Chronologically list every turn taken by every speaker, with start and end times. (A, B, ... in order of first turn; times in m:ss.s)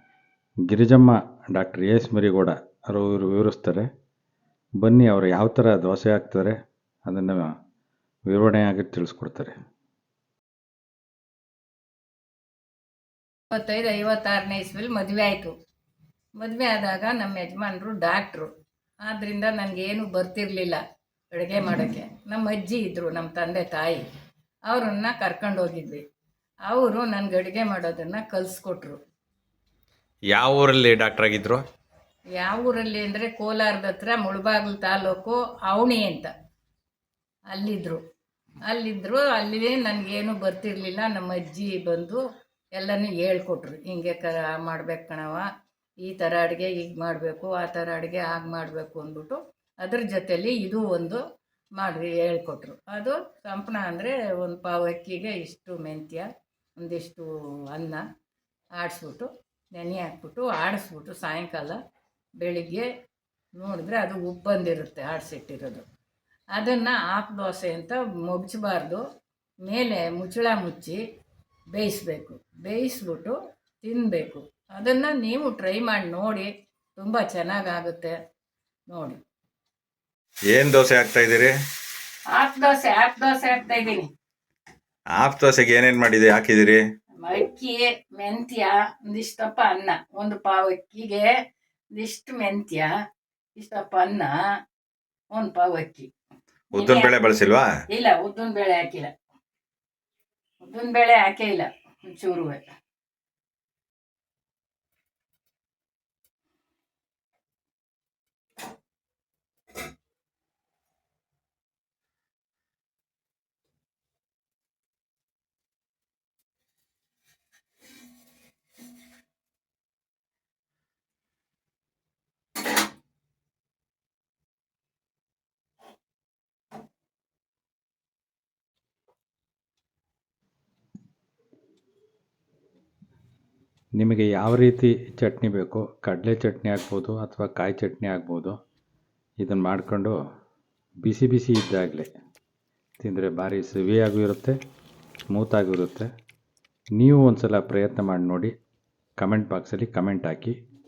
0:00.7-0:03.9 A
0:04.8-0:06.6 A
0:07.1-0:07.5 A
0:08.3-0:09.5 A
0:13.5-0:15.5 B
0:16.4-0:18.5 B
0:19.0-0:20.8 B
0:21.3-0:24.0 B
0:24.7-0:26.0 B
0:26.7-0:29.0 B
0:30.3-0:31.6 C
0:32.4-0:36.3 B
0:37.5-0:38.0 B
0:38.7-0:42.2 B
0:42.8-0:45.4 B
0:46.0-0:51.2 B
0:51.8-0:58.0 B
0:58.8-1:01.8 B
1:02.4-1:02.8 B
1:03.6-1:05.8 B
1:06.5-1:09.0 B
1:09.6-1:11.0 B
1:11.7-1:18.1 B
1:18.9-1:19.2 B
1:20.5-1:21.5 C
1:22.3-1:24.1 B
1:25.2-1:26.8 C
1:27.2-1:31.3 B
1:31.9-1:32.9 B
1:33.6-1:34.3 B
1:35.3-1:36.1 B
1:36.7-1:37.7 C
1:36.7-1:37.2 B
1:37.9-1:39.1 B
1:40.6-1:42.6 B
2:14.0-2:18.6 A
2:19.4-2:20.2 A
2:21.0-2:22.1 A
2:23.0-2:24.6 A
2:25.3-2:26.1 A
2:27.0-2:28.5 A
2:29.2-2:30.6 A